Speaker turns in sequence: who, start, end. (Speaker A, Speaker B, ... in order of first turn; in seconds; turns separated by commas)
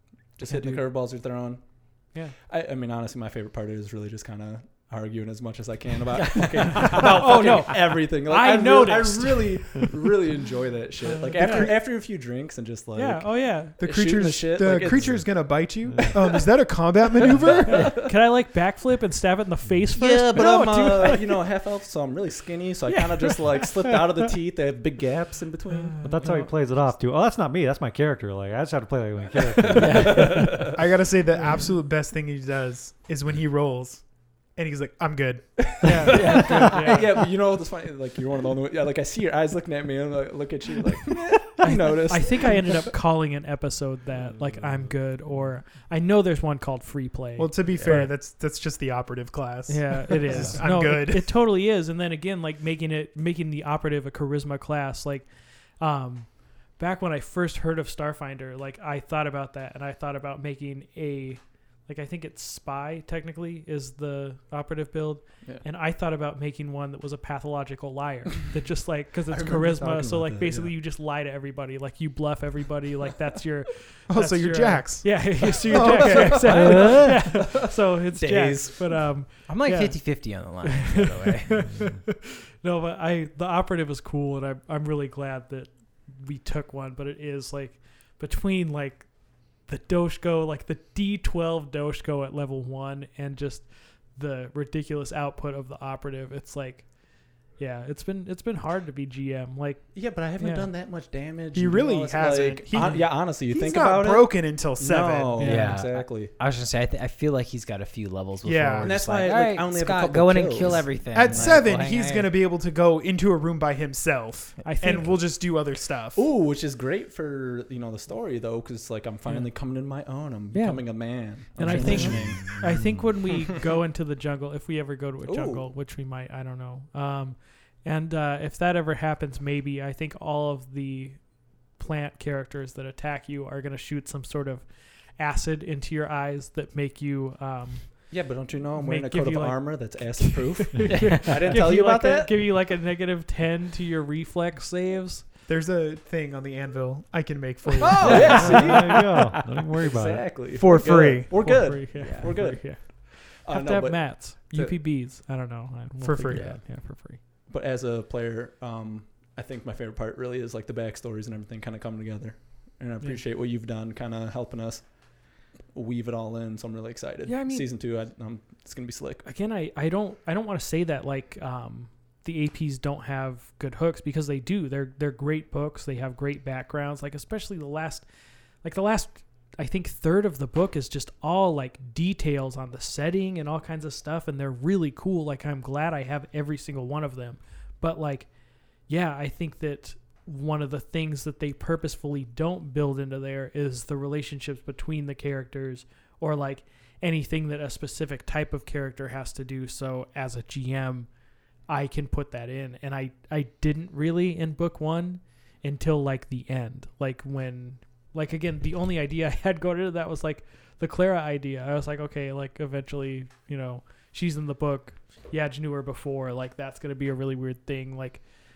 Speaker A: 0.4-15.3, Speaker B: 0.4-0.9, Speaker C: 6.2-7.1, Speaker B: 6.7-9.9, Speaker B: 11.2-11.7, Speaker B: 13.0-13.8, Speaker D: 13.8-18.0, Speaker E: 15.0-15.3, Speaker E: 15.8-16.2, Speaker A: 16.1-16.4, Speaker A: 17.6-17.9, Speaker B: 17.7-21.4, Speaker A: 19.9-26.4, Speaker B: 22.9-23.9, Speaker B: 25.7-26.5, Speaker E: 26.0-30.4, Speaker A: 29.7-30.8, Speaker C: 29.7-30.7, Speaker D: 30.7-36.5, Speaker B: 31.4-31.7, Speaker A: 35.8-42.5, Speaker B: 35.8-37.1, Speaker C: 36.1-36.5, Speaker B: 41.6-48.1, Speaker E: 44.4-45.5, Speaker D: 47.4-51.4, Speaker B: 49.7-100.7, Speaker A: 69.3-70.7, Speaker D: 74.1-76.7, Speaker A: 75.6-79.0, Speaker C: 76.6-77.0, Speaker C: 79.5-81.8, Speaker A: 99.9-106.3, Speaker D: 101.5-105.4, Speaker B: 105.4-105.8, Speaker C: 105.4-112.3, Speaker D: 108.4-109.0, Speaker A: 108.8-111.6, Speaker D: 111.1-116.3, Speaker B: 114.6-115.2, Speaker A: 116.2-122.6, Speaker B: 120.5-138.2, Speaker C: 121.7-122.5, Speaker E: 121.9-123.2, Speaker A: 125.2-125.7, Speaker A: 138.1-142.5, Speaker B: 138.8-145.3, Speaker C: 140.9-141.4, Speaker D: 145.5-148.7, Speaker A: 147.8-154.8, Speaker B: 147.9-148.8, Speaker E: 148.1-150.4, Speaker D: 150.5-151.3, Speaker B: 151.3-157.2, Speaker C: 152.0-152.3, Speaker D: 156.0-156.5, Speaker A: 156.3-164.9, Speaker A: 165.7-169.3, Speaker B: 167.3-167.7, Speaker B: 169.2-178.1, Speaker B: 178.6-188.3, Speaker B: 188.8-201.1, Speaker B: 201.7-218.2